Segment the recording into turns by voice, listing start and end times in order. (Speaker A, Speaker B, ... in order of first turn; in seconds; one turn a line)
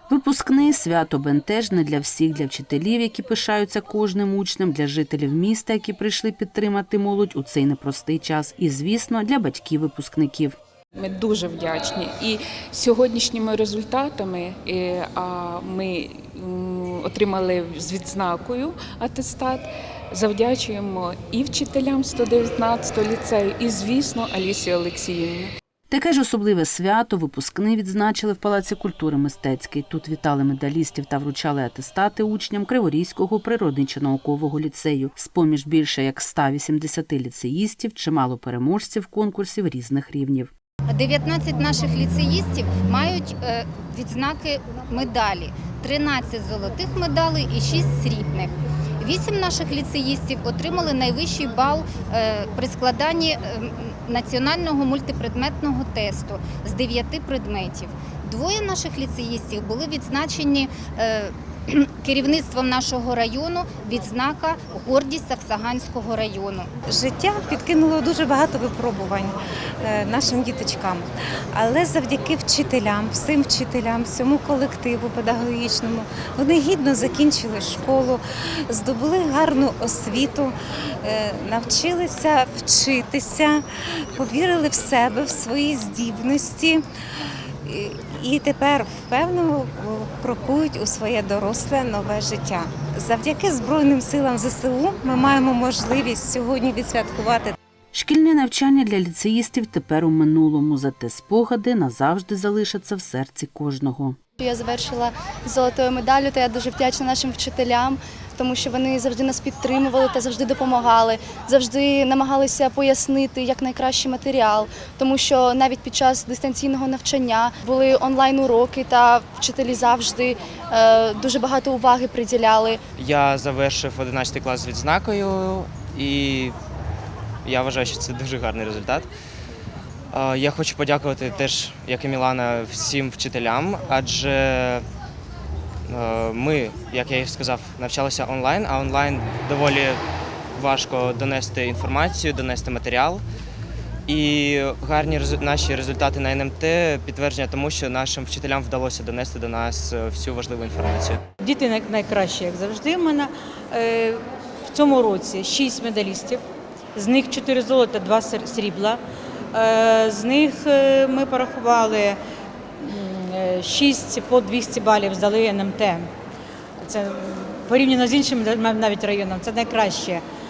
Speaker A: 0.1-10.6
Speaker B: 10.9-25.5
Speaker A: 25.9-40.5
Speaker C: 40.9-66.7
Speaker D: 66.8-86.8
Speaker D: 87.7-97.5
Speaker A: 97.9-104.2
Speaker E: 104.4-122.8
Speaker F: 123.0-126.5
Speaker F: 127.4-129.1
Speaker F: 130.1-134.8
Speaker F: 135.9-140.0
Speaker F: 140.6-143.2
Speaker F: 144.1-151.2
Speaker G: 151.4-156.4
Speaker G: 156.9-159.0
Speaker G: 159.5-162.2
Speaker G: 162.8-166.1
Speaker G: 166.8-170.2